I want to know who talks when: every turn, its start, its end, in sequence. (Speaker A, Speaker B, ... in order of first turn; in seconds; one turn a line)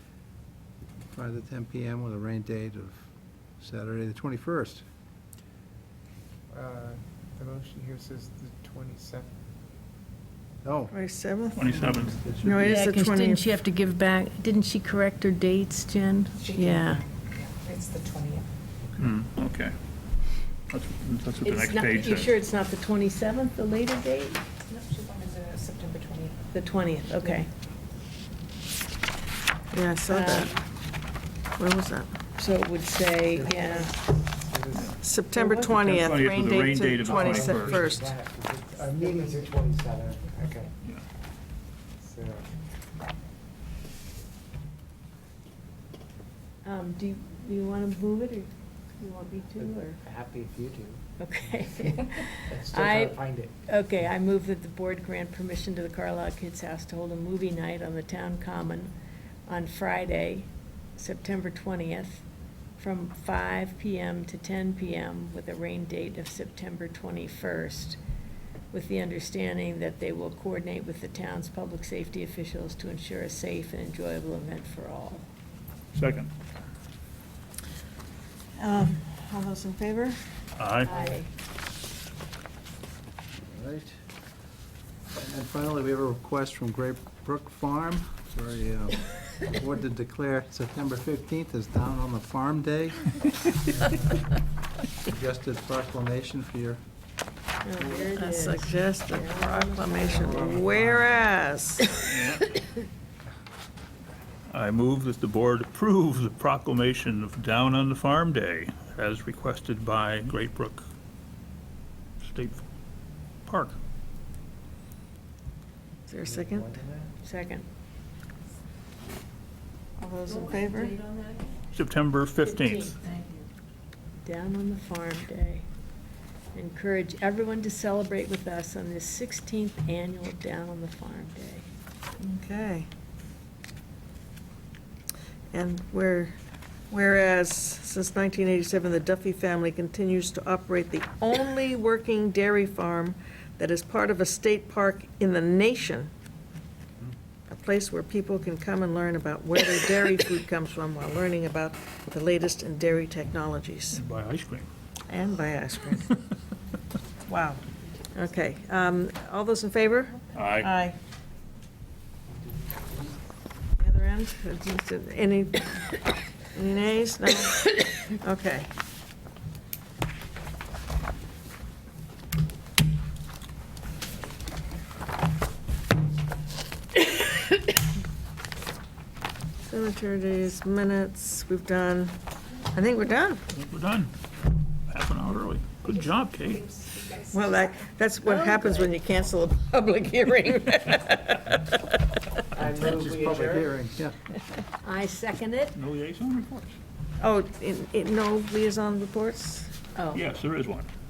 Speaker A: 1.1-4.8
Speaker B: 6.5-9.3
Speaker A: 10.6-10.9
Speaker C: 10.9-13.5
Speaker D: 11.6-12.7
Speaker E: 12.6-17.0
Speaker F: 16.4-17.0
Speaker F: 17.6-18.5
Speaker D: 19.0-19.7
Speaker D: 20.7-22.3
Speaker E: 21.4-24.4
Speaker F: 24.7-26.4
Speaker E: 26.5-27.5
Speaker C: 29.7-30.5
Speaker E: 30.1-30.6
Speaker C: 31.6-32.9
Speaker E: 32.4-33.9
Speaker B: 33.3-35.0
Speaker C: 35.0-38.1
Speaker E: 35.3-35.9
Speaker D: 35.7-37.8
Speaker B: 37.0-40.7
Speaker B: 42.0-42.5
Speaker E: 46.6-50.0
Speaker B: 49.5-51.0
Speaker E: 51.2-58.9
Speaker B: 51.7-53.5
Speaker E: 59.5-62.2
Speaker E: 62.8-68.0
Speaker E: 68.7-75.2
Speaker D: 75.9-76.3
Speaker C: 78.5-80.2
Speaker D: 80.6-80.9
Speaker E: 80.8-81.3
Speaker A: 83.5-84.0
Speaker A: 85.1-93.1
Speaker A: 93.6-94.2
Speaker A: 95.0-96.8
Speaker E: 97.6-100.5
Speaker C: 97.8-101.9
Speaker B: 100.4-101.2
Speaker D: 102.0-102.6
Speaker D: 104.5-110.8
Speaker D: 112.2-112.7
Speaker D: 113.5-113.8
Speaker C: 116.1-116.8
Speaker B: 116.5-117.1
Speaker E: 117.2-117.6
Speaker C: 120.0-121.0
Speaker D: 121.7-123.0
Speaker E: 122.4-123.0
Speaker E: 124.2-125.7
Speaker E: 126.5-131.7
Speaker C: 132.2-132.9
Speaker C: 135.5-136.3
Speaker C: 136.9-146.1
Speaker C: 147.5-154.0
Speaker D: 153.9-154.7
Speaker C: 155.1-156.2
Speaker C: 157.2-157.6
Speaker C: 158.1-161.0
Speaker D: 160.3-160.7
Speaker C: 163.8-168.7
Speaker C: 179.6-182.2
Speaker C: 182.7-183.4
Speaker D: 183.5-184.1
Speaker D: 184.9-186.7
Speaker C: 187.1-191.8
Speaker E: 188.3-188.9
Speaker A: 192.6-194.1
Speaker F: 193.0-193.5
Speaker E: 194.8-195.8
Speaker D: 195.7-196.8
Speaker C: 197.2-199.8
Speaker E: 199.9-200.2
Speaker D: 200.1-200.9